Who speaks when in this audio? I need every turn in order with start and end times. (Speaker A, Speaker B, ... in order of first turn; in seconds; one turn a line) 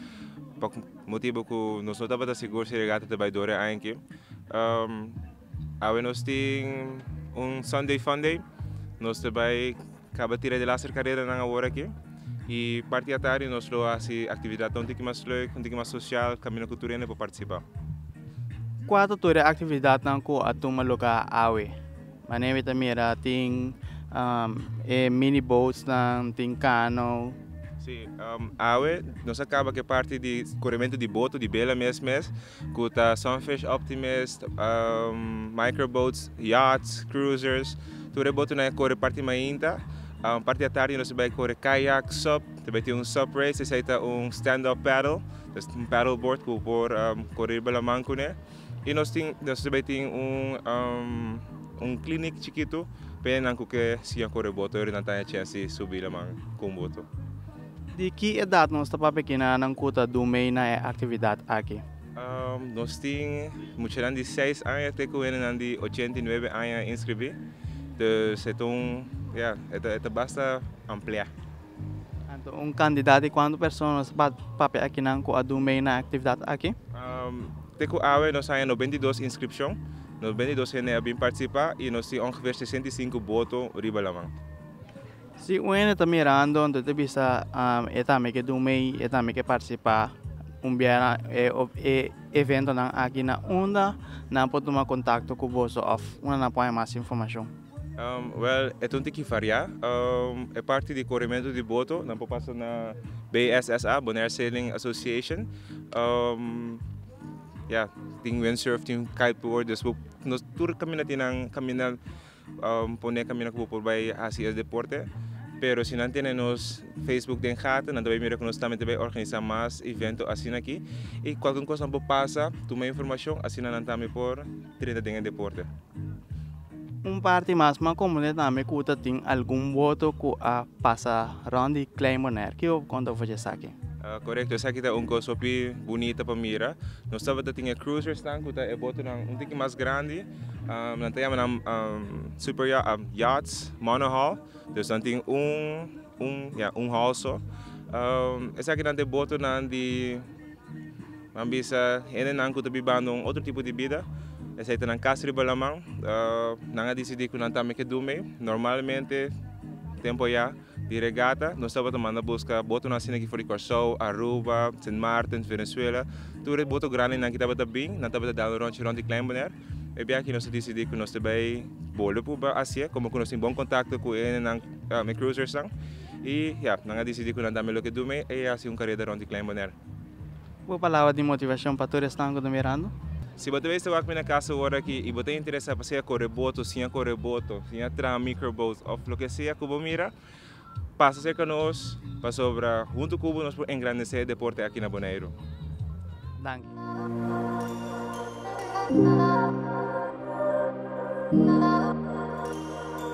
Speaker A: 0.6-5.2
Speaker A: 5.8-8.4
Speaker A: 9.0-11.9
Speaker A: 12.5-17.6
Speaker B: 18.9-21.7
Speaker B: 22.3-27.4
Speaker A: 27.8-57.1
Speaker B: 58.0-61.8
Speaker A: 62.2-67.4
Speaker A: 68.0-71.3
Speaker B: 72.3-76.8
Speaker A: 76.9-84.3
Speaker B: 85.4-97.5
Speaker A: 98.0-106.8
Speaker A: 107.7-112.0
Speaker A: 112.6-115.1
Speaker A: 115.6-125.7
Speaker B: 127.0-133.8
Speaker A: 134.0-150.3
Speaker A: 151.3-154.1
Speaker A: 154.6-159.3
Speaker A: 160.0-175.7
Speaker A: 176.2-179.8
Speaker B: 180.7-182.9
Speaker A: 183.4-190.1
Speaker A: 191.0-195.3
Speaker B: 196.4-196.7